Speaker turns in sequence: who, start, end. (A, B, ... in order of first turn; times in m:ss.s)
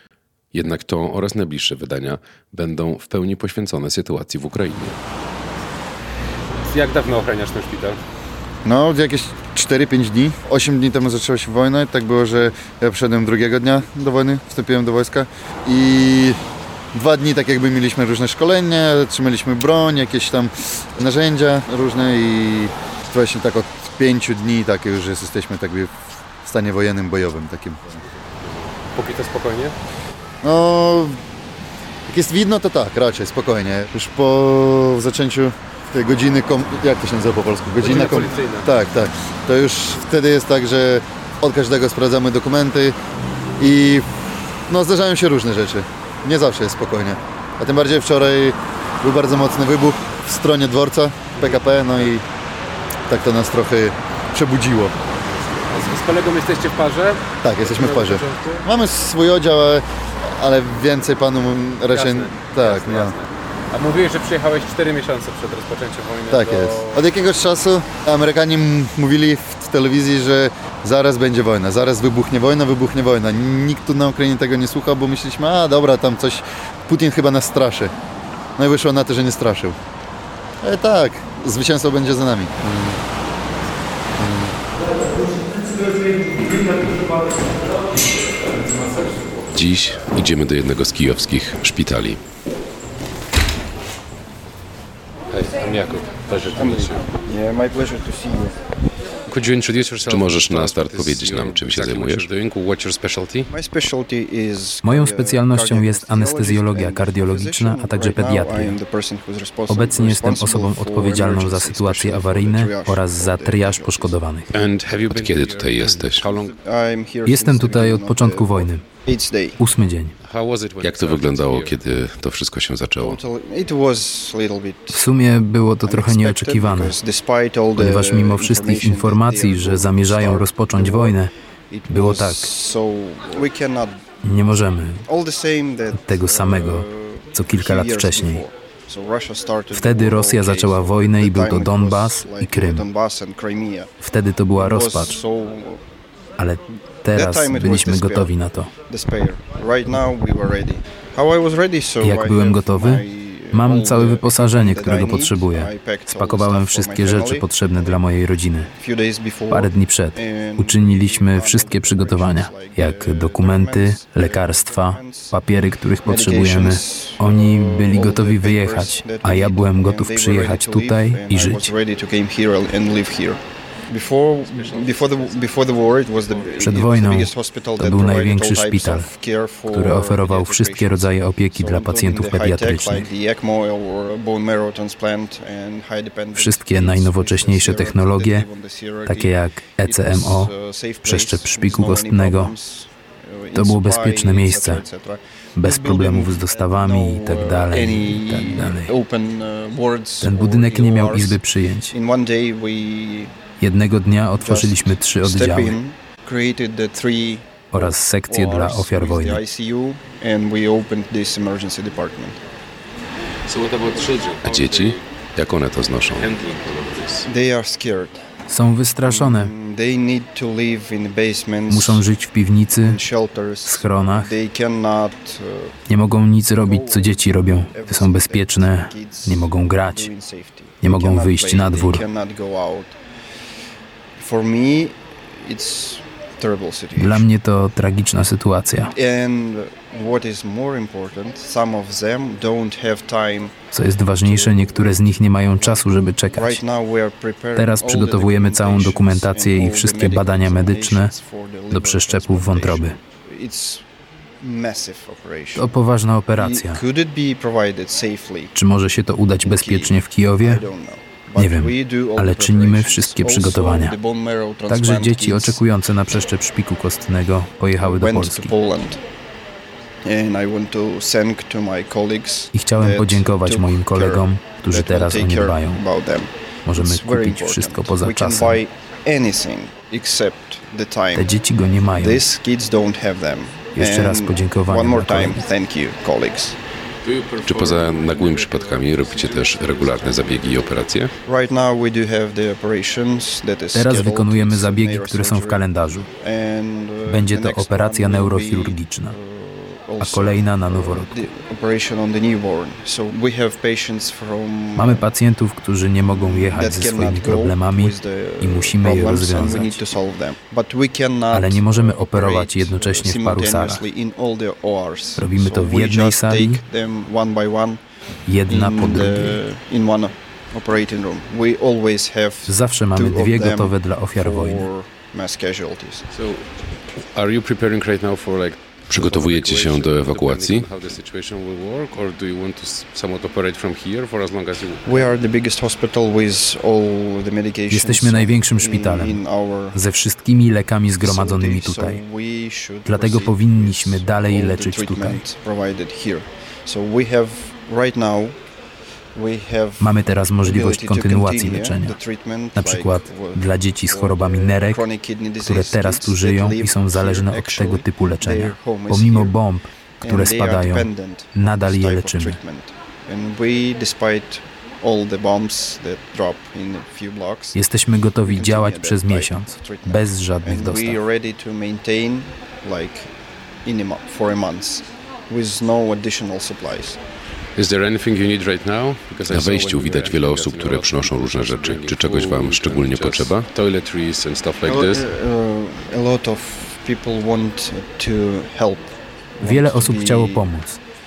0:00.5-0:05.0 A
0:06.6-0:08.0 B
0:08.6-0:16.4 C
0:16.9-0:28.0 C
0:28.9-0:29.7 B
0:30.4-0:31.2 C
0:32.1-0:43.0 C
0:37.8-0:38.7 B
0:43.6-0:44.0 C
0:44.7-0:52.2 C
0:51.3-0:52.1 B
0:53.1-0:54.9 C
0:55.1-0:58.6 B
0:57.4-1:03.2 C
1:01.9-1:07.1 B
1:06.3-1:17.9 C
1:18.6-1:19.8 C
1:20.6-1:22.5 C
1:29.5-1:32.2 A
1:35.3-1:37.0 B
1:36.5-1:38.6 D
1:39.3-1:43.5 B
1:40.0-1:42.3 A
1:43.5-1:54.2 D
1:44.8-1:48.8 E
1:49.7-1:54.5 E
1:54.5-1:56.6 B
1:55.0-1:56.3 A
1:56.6-1:59.6 D
1:57.2-1:58.8 E
1:59.6-2:00.1 E
2:00.2-2:01.8 B
2:00.8-2:03.2 A
2:03.0-2:05.1 D
2:04.9-2:06.9 E
2:05.8-2:11.2 D
2:07.8-2:11.3 E
2:11.7-2:14.0 D
2:11.9-2:12.5 E
2:14.2-2:15.0 E
2:15.0-2:23.9 D
2:15.9-2:18.4 E
2:19.7-2:22.8 E
2:24.0-2:25.2 E
2:24.5-2:25.8 D
2:26.4-2:28.7 E
2:27.1-2:38.0 D
2:32.0-2:38.7 E
2:38.6-2:45.4 D
2:39.5-2:51.7 E
2:46.0-3:23.3 D
2:54.5-2:55.7 B
2:56.3-2:56.6 B
2:56.6-2:59.1 E
2:59.7-3:03.1 E
3:06.4-3:08.5 E
3:09.0-3:10.5 E
3:11.0-3:12.5 E
3:13.5-3:14.8 E
3:15.6-3:18.9 E
3:20.2-3:21.9 E
3:23.6-3:25.7 E
3:24.4-3:32.4 D
3:27.7-3:29.4 E
3:33.5-3:35.0 B
3:34.4-3:37.0 A
3:36.1-3:37.2 B
3:37.2-3:38.2 D
3:38.5-3:39.5 E
3:39.0-3:42.1 D
3:41.7-3:43.0 E
3:42.8-3:45.8 D
3:43.6-3:44.3 E
3:45.9-3:50.1 E
3:46.6-3:52.9 D
3:50.8-3:52.0 E
3:54.2-3:57.3 D
3:57.0-3:58.9 E
3:58.9-4:13.8 D
4:03.7-4:06.6 E
4:07.6-4:11.1 E
4:11.7-4:13.0 E
4:14.4-4:15.8 D
4:15.6-4:16.8 E
4:16.4-4:18.5 D
4:18.5-4:20.6 E
4:19.4-4:25.6 D
4:21.4-4:24.0 E
4:24.7-4:28.5 E
4:27.8-4:29.0 D
4:30.0-4:41.4 D
4:32.5-4:35.8 E
4:36.6-4:38.6 E
4:41.1-4:42.2 E
4:41.9-4:46.6 D
4:43.7-4:45.4 E
4:47.0-4:50.9 B
4:47.4-4:51.1 A
4:51.2-5:05.1 D
4:53.7-4:56.1 E
4:57.1-4:59.1 E
5:00.0-5:01.2 E
5:04.8-5:09.7 E
5:06.1-5:17.8 D
5:11.3-5:13.8 E
5:15.2-5:16.6 E
5:18.2-5:19.4 E
5:18.4-5:26.0 D
5:22.4-5:24.7 E
5:26.1-5:26.4 B
5:27.1-5:35.2 B
5:28.9-5:30.7 A
5:34.8-5:39.8 D
5:37.7-5:39.2 E
5:39.7-5:42.0 E
5:41.0-5:48.4 D
5:42.8-5:45.2 E
5:49.1-5:59.4 D
5:49.8-5:52.0 E
5:52.6-5:54.8 E
5:55.5-6:02.4 E
6:00.0-6:13.1 D
6:07.5-6:11.0 E
6:13.6-6:17.0 D
6:17.6-6:25.0 B
6:19.3-6:23.5 A
6:24.6-6:30.5 D
6:29.4-6:30.8 E